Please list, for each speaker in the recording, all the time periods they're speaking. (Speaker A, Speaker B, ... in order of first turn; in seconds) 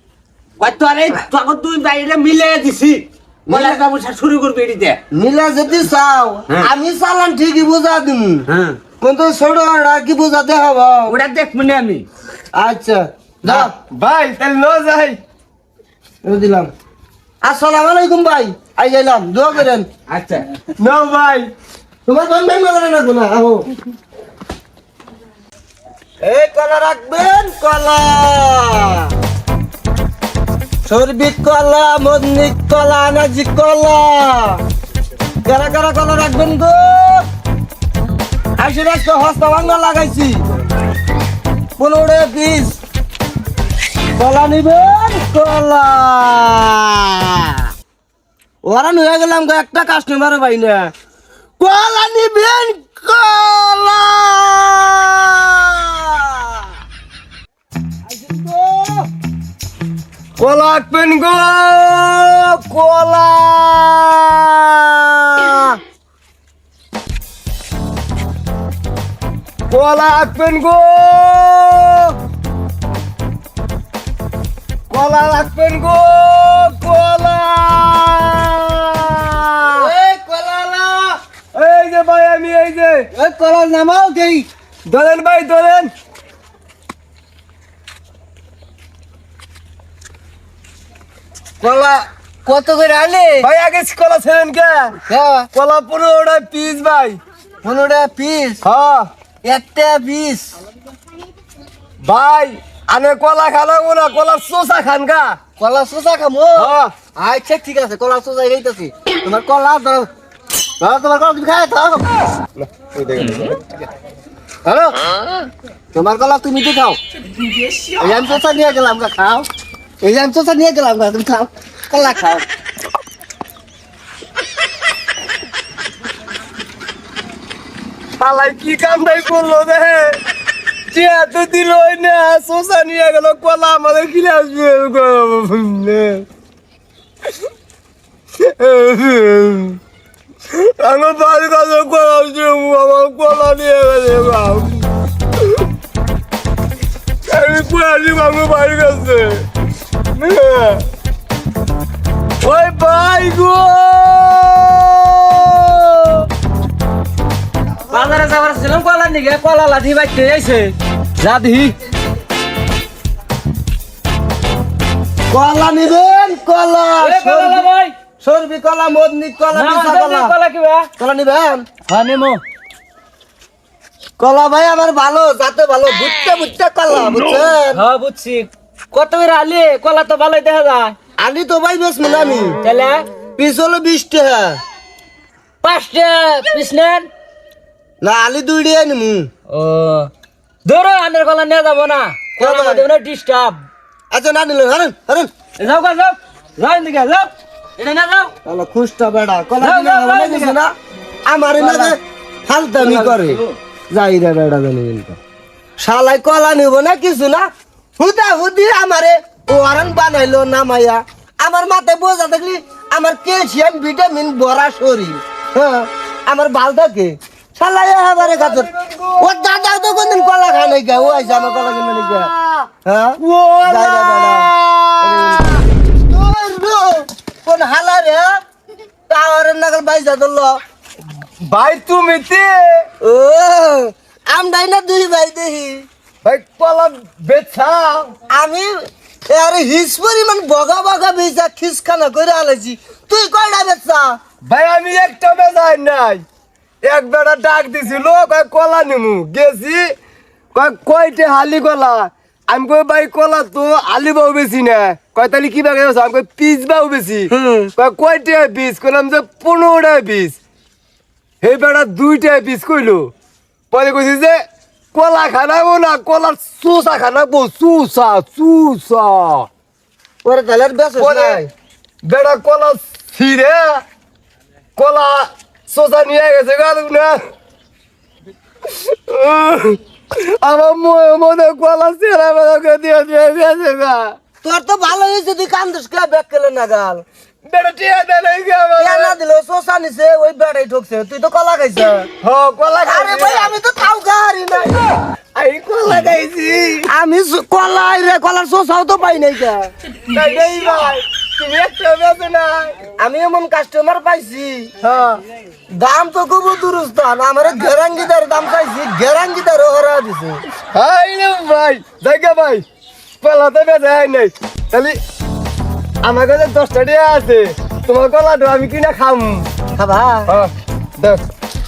Speaker A: 0.6-5.0, 8.5-8.8, 11.1-12.1, 20.1-20.4
Speaker B: 3.5-3.8, 5.1-8.4, 9.0-11.1, 12.5-13.7, 16.2-16.7, 17.4-19.9, 22.1-23.7, 26.2-29.1, 30.9-34.6, 35.5-37.3, 38.6-40.4, 41.8-42.8, 44.2-47.5, 48.7-50.9, 51.6-56.6, 58.1-59.1, 79.8-81.1, 83.1-84.5, 91.6-93.5, 95.1-95.5, 97.6-98.6, 99.4-100.5, 105.6-110.1, 110.8-112.1, 114.7-115.0, 115.9-117.0, 118.0-119.5, 120.0-122.4, 165.3-167.7, 168.2-170.3, 171.0-171.7, 174.2-177.8, 181.2-182.6, 183.4-184.6, 188.0-189.3, 192.4-192.9, 194.1-195.3, 198.4-200.7, 201.3-205.2, 205.8-207.5, 208.0-228.4, 229.1-230.6, 233.0-235.9, 238.3-244.2, 257.3-257.7, 270.2-271.5, 284.4-287.0, 288.8-292.1, 292.9-294.8, 296.9-299.7, 303.0-304.7, 305.7-310.4, 319.8-320.3
Speaker C: 13.5-15.2, 20.8-21.5, 60.4-65.8, 69.7-72.1, 74.9-79.9, 81.5-83.1, 84.9-85.9, 93.4-95.0, 95.5-97.2, 98.6-99.1, 102.0-105.4, 106.6-106.9, 112.8-113.6, 128.2-130.2, 130.9-136.2, 138.4-139.8, 140.5-144.9, 147.3-149.5, 150.2-150.8, 152.4-156.3, 218.3-219.2, 223.2-225.4, 231.4-232.9, 236.2-238.2, 244.4-246.2, 246.8-249.9, 250.5-260.4, 261.4-263.1, 263.7-269.5, 271.0-271.5, 272.0-273.8, 274.8-277.2, 278.7-284.2, 287.5-289.1, 292.2-293.5, 295.4-296.9, 300.1-302.9, 304.8-305.2, 310.7-312.6, 313.2-315.0, 316.0-319.5, 320.3-321.2
Speaker D: 167.0-167.9, 169.5-170.9, 171.9-172.4, 177.8-180.9, 185.6-187.0, 189.6-189.9, 190.7-193.6, 195.6-196.1, 196.6-197.2, 199.6-200.5, 201.6-201.9